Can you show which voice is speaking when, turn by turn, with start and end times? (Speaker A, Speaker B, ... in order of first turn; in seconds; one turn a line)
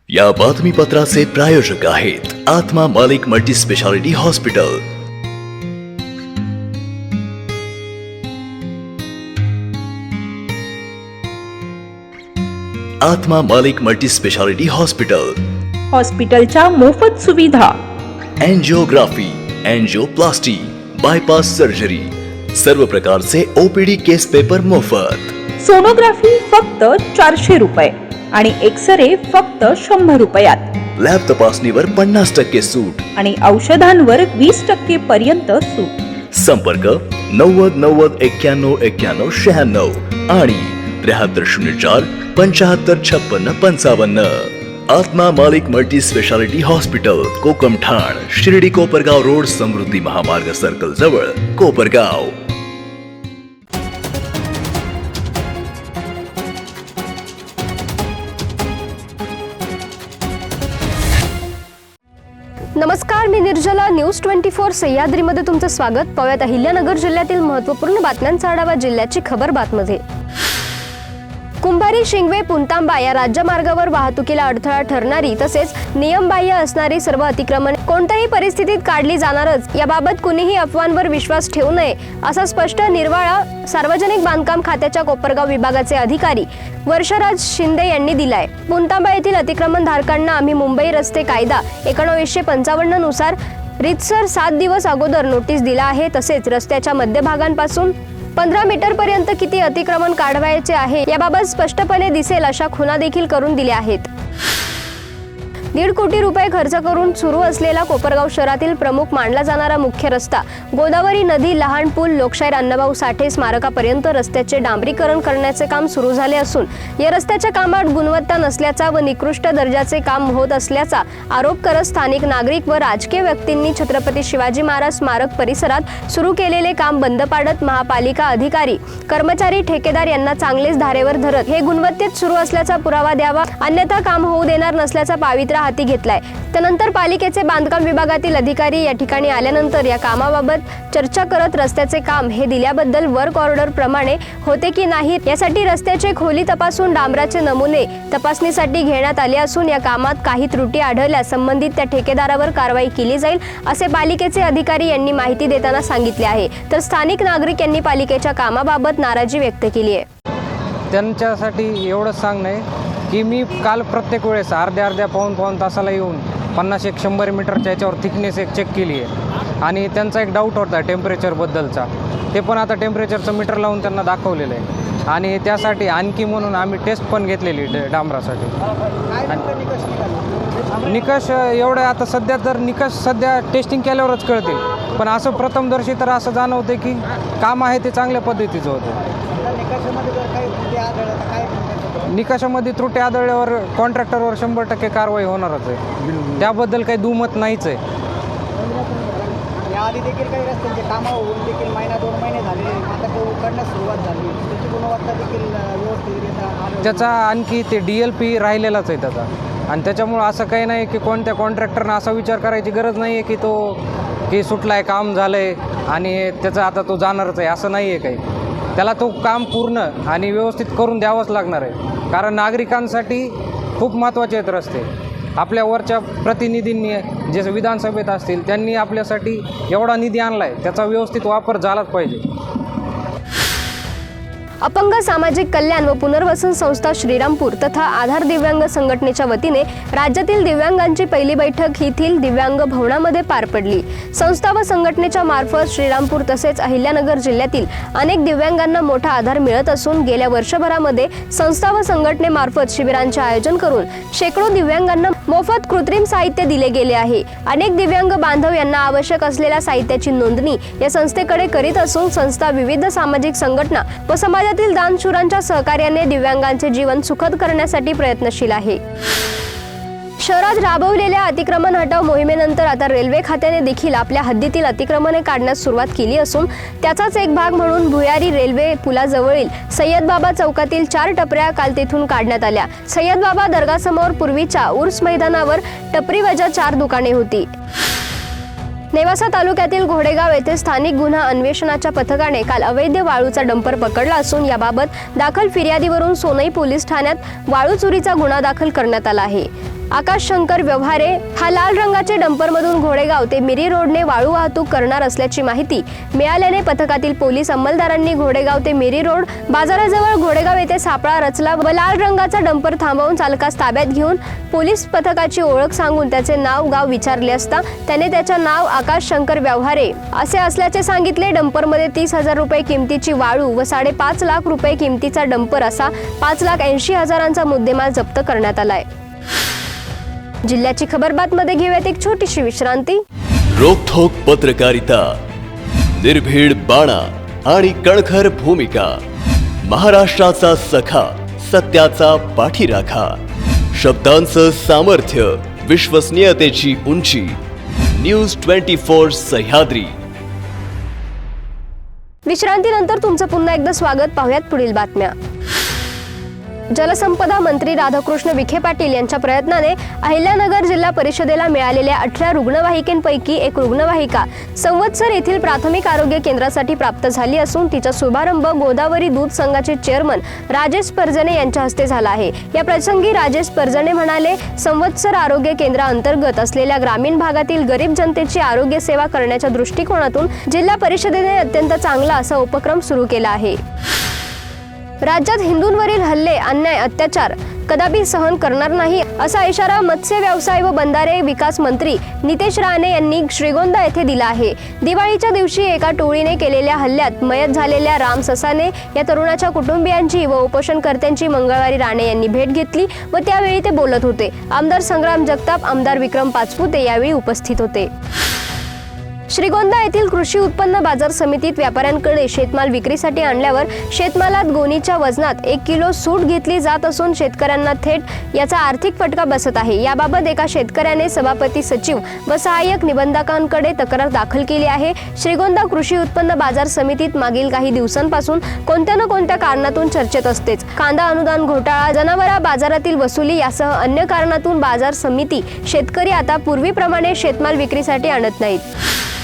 Speaker A: 0.1-4.8
Speaker A: 13.0-15.4
Speaker B: 16.4-17.7
Speaker A: 18.4-25.4
Speaker B: 25.6-30.6
Speaker A: 31.0-33.0
Speaker B: 33.6-35.9
Speaker A: 36.4-52.4
Speaker C: 62.8-70.0
Speaker C: 71.6-104.1
Speaker C: 105.7-160.1
Speaker D: 160.9-169.1
Speaker D: 169.6-178.5
Speaker E: 179.1-180.6
Speaker D: 180.8-189.0
Speaker E: 189.3-192.0
Speaker D: 192.1-197.8
Speaker E: 198.6-207.1
Speaker D: 206.8-218.2
Speaker D: 218.8-232.2
Speaker C: 234.6-268.8
Speaker C: 270.2-287.5
Speaker C: 288.9-328.8
Speaker C: 330.4-333.0
Speaker A: 333.6-335.1
Speaker A: 336.0-338.9
Speaker A: 339.7-343.1
Speaker A: 343.8-347.3
Speaker A: 348.0-349.9
Speaker C: 352.2-355.1
Speaker C: 356.7-383.6
Speaker C: 385.0-407.9
Speaker C: 409.3-438.6